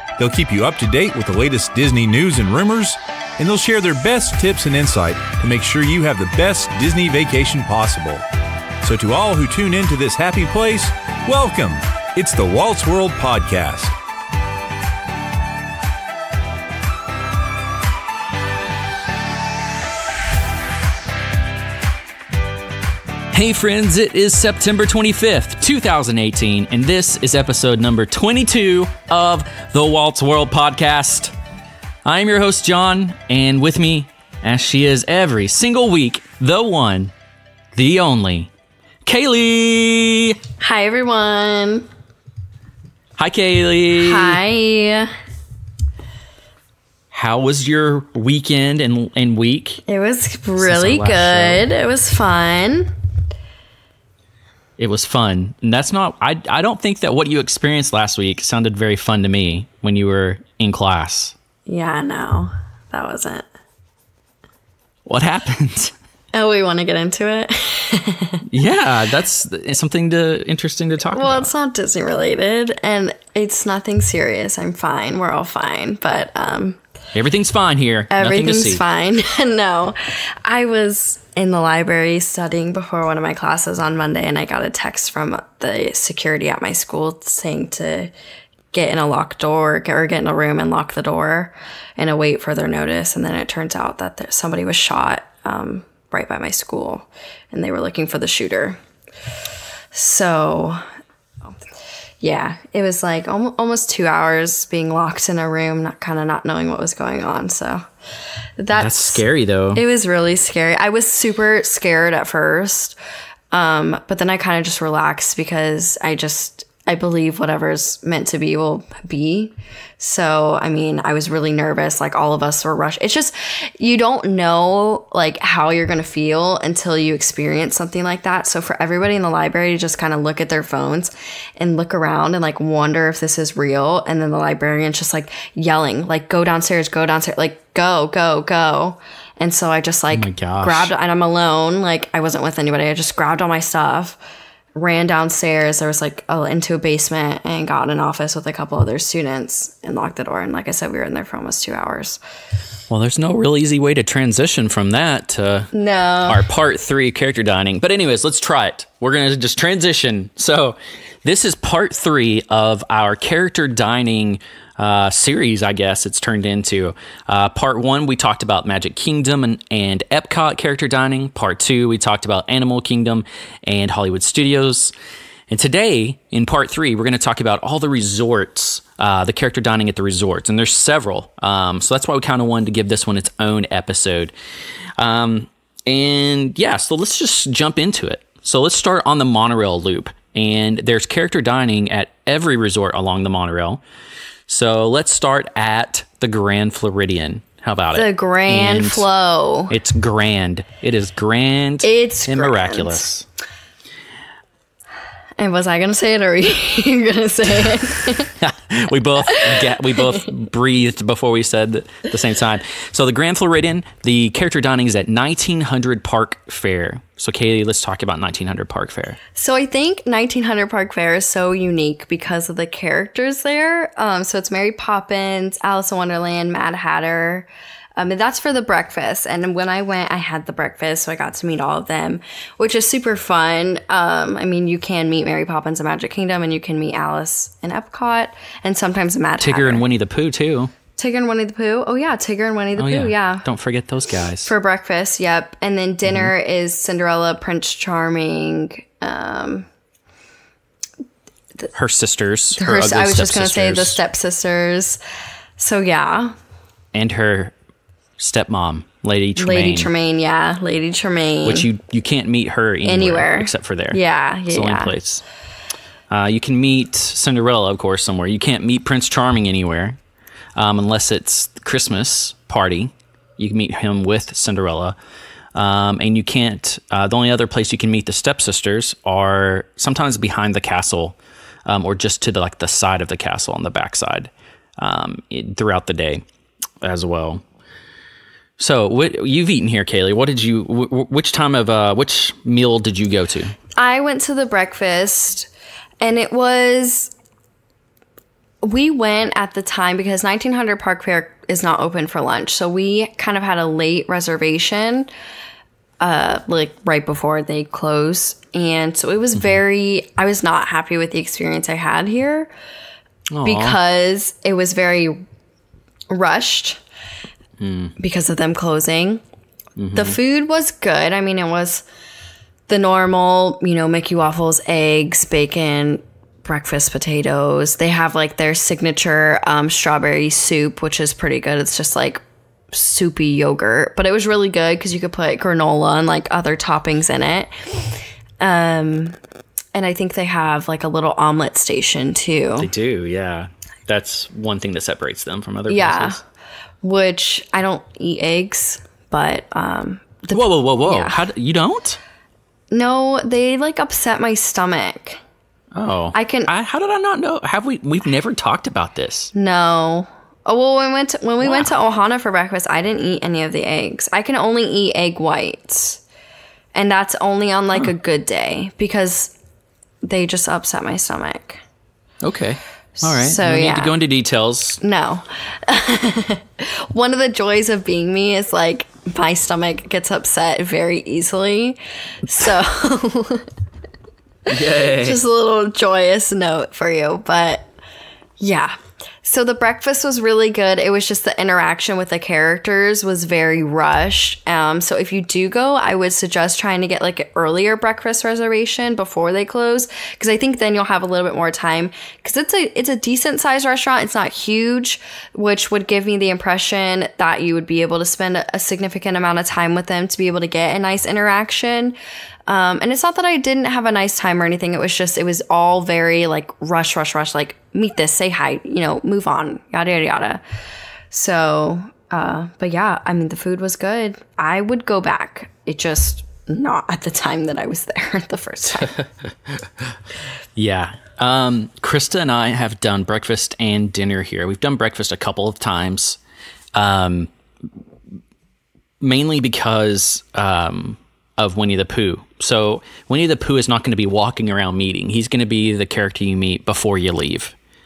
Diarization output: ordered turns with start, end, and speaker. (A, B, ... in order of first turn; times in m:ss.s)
0:00.2-0:08.2 A
0:08.8-0:13.9 A
0:23.3-0:31.3 B
0:32.0-0:37.1 B
0:37.7-0:38.5 B
0:39.0-0:40.4 B
0:40.6-0:41.9 C
0:43.2-0:44.4 B
0:44.0-0:45.1 C
0:47.1-0:49.8 B
0:49.9-0:52.9 C
0:50.6-0:51.7 B
0:54.8-1:01.4 B
1:01.7-1:03.5 C
1:05.1-1:05.9 B
1:06.3-1:08.4 C
1:08.5-1:11.5 B
1:11.2-1:16.8 C
1:17.2-1:18.8 B
1:18.1-1:28.1 C
1:28.7-1:38.8 C
1:39.9-1:40.8 C
1:42.2-1:47.8 C
1:48.6-1:49.2 C
1:48.7-1:49.8 B
1:49.7-1:53.0 C
1:53.5-2:24.2 C
2:20.1-2:20.9 B
2:24.8-2:32.2 C
2:32.9-2:35.7 B
2:35.7-2:36.4 C
2:36.2-2:54.9 B
2:55.5-3:04.3 B
3:05.0-3:13.8 B
3:14.5-3:19.1 B
3:17.9-3:19.8 C
3:19.7-3:23.3 B
3:21.8-3:23.1 C
3:25.4-3:28.3 C
3:28.4-3:39.2 B
3:29.3-3:30.3 C
3:39.4-3:59.8 C
3:59.4-4:00.7 B
4:01.0-4:03.5 C
4:02.8-4:04.5 B
4:04.4-4:09.7 C
4:06.1-4:06.3 B
4:11.7-4:14.0 B
4:12.6-4:15.0 C
4:15.6-4:16.4 C
4:16.9-4:17.5 B
4:18.2-4:19.9 B
4:19.4-4:21.7 C
4:21.4-4:25.2 B
4:22.8-4:24.9 C
4:26.1-4:30.0 B
4:30.6-4:35.0 B
4:35.6-4:46.2 B
4:46.8-4:47.4 B
4:48.6-4:53.6 B
4:53.8-4:55.5 C
4:56.0-4:57.1 C
4:58.6-5:05.1 C
5:06.0-5:12.5 C
5:13.3-5:13.8 B
5:13.4-5:15.2 C
5:16.1-5:16.8 C
5:17.6-5:17.9 B
5:18.0-5:19.2 C
5:19.8-5:20.2 B
5:19.9-5:21.8 C
5:22.7-5:37.5 C
5:38.4-5:39.2 C
5:39.8-5:42.7 C
5:42.6-5:46.2 B
5:45.7-5:46.2 C
5:46.8-5:51.2 C
5:50.3-5:52.0 B
5:52.7-5:55.2 C
5:55.7-5:59.3 B
5:56.1-5:56.5 C
5:59.4-6:06.0 C
6:01.4-6:01.7 B
6:06.7-6:09.4 C
6:10.0-6:11.6 C
6:12.2-6:14.8 B
6:13.0-6:14.0 C
6:14.8-6:23.5 C
6:24.5-6:25.2 B
6:24.8-6:27.7 C
6:28.4-6:52.0 C
6:52.5-7:00.4 C
7:01.1-7:09.0 C
7:10.6-7:16.2 B
7:16.8-7:17.3 B
7:19.0-7:27.6 B